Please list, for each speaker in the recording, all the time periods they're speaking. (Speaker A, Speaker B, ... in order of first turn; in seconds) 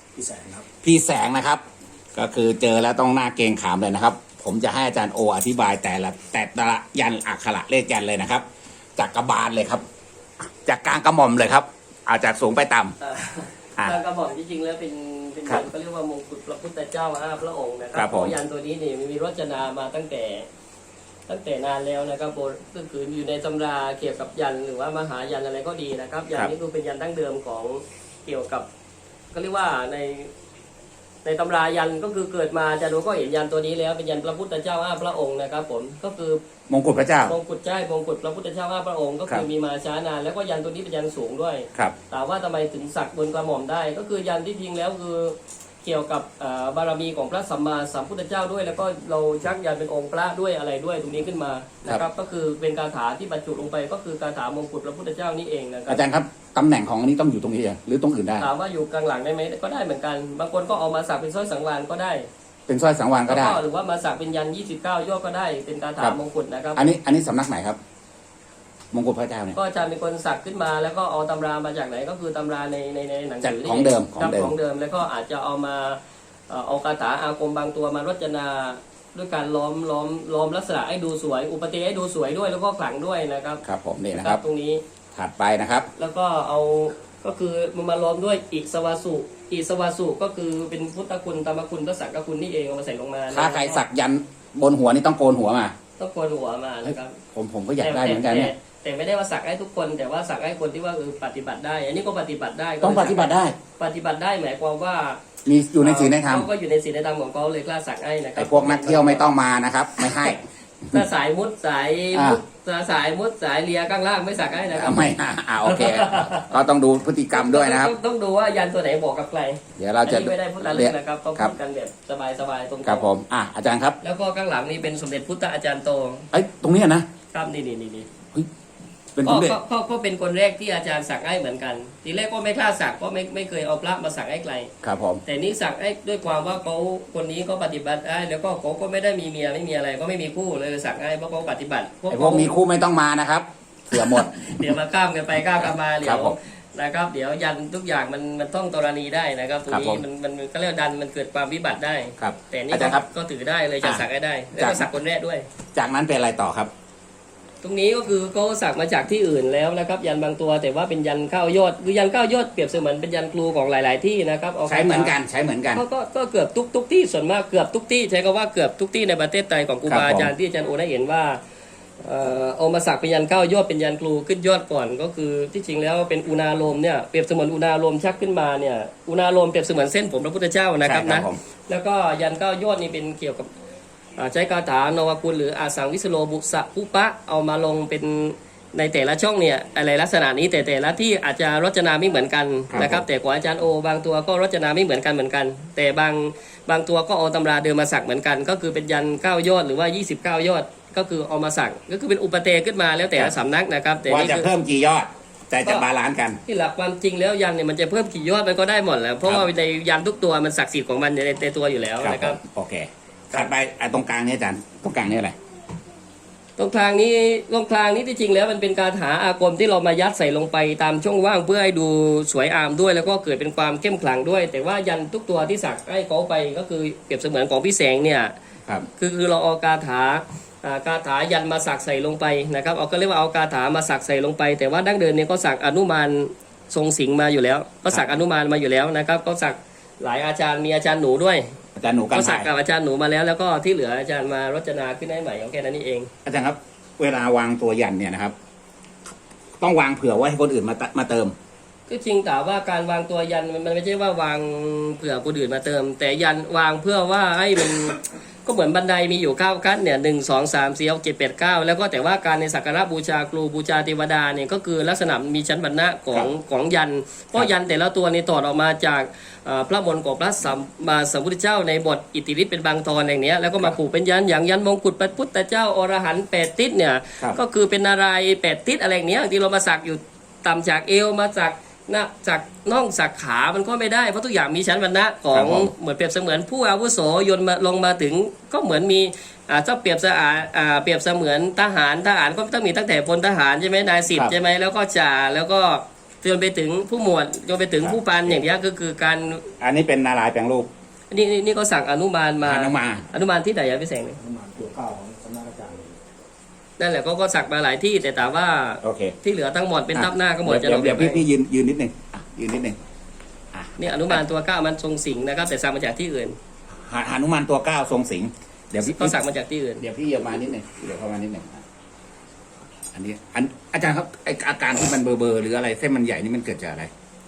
Speaker A: 0.2-0.7, 304.2-305.9
Speaker B: 0.8-1.6, 2.1-8.4, 9.0-9.8, 10.4-12.9, 17.9-18.4, 36.7-37.4, 55.9-58.5, 62.7-63.6, 66.8-67.8, 68.9-69.6, 73.4-74.5, 83.6-84.4, 85.2-85.9, 93.3-95.7, 96.9-98.5, 102.8-103.6, 105.5-106.5, 108.4-110.4, 112.1-112.4, 114.7-118.0, 119.8-121.5, 122.8-124.0, 126.3-127.1, 129.2-129.6, 134.8-135.2, 142.1-144.8, 145.6-146.4, 149.7-150.0, 152.2-153.1, 153.8-155.0, 155.8-156.7, 164.7-165.8, 169.9-170.3, 180.8-181.4, 192.7-193.0, 204.1-206.4, 212.0-215.4, 241.8-242.5, 246.2-248.3, 249.6-251.3, 285.3-285.7, 297.8-298.4, 299.6-300.7, 302.4-303.1, 308.8-309.1, 309.9-312.8, 313.5-314.2, 316.8-319.2, 319.8-321.6, 322.9-326.9
Speaker C: 13.0-20.5, 21.3-28.7, 29.3-30.3, 31.2-36.4, 37.3-56.0, 58.4-62.3, 63.3-66.9, 69.5-76.0, 76.5-83.6, 84.1-84.8, 86.0-93.8, 96.0-97.2, 97.8-105.2, 105.8-109.3, 110.0-110.4, 110.9-115.1, 115.7-116.5, 117.3-123.1, 124.0-126.3, 127.3-128.1, 129.2-134.7, 135.2-142.5, 144.0-155.5, 157.6-165.1, 165.7-171.4, 172.0-183.5, 184.2-204.5, 206.5-212.4, 216.6-228.3, 229.0-241.5, 242.1-246.1, 251.9-299.4, 301.1-304.2, 306.8-311.2, 313.8-316.4, 318.8-319.8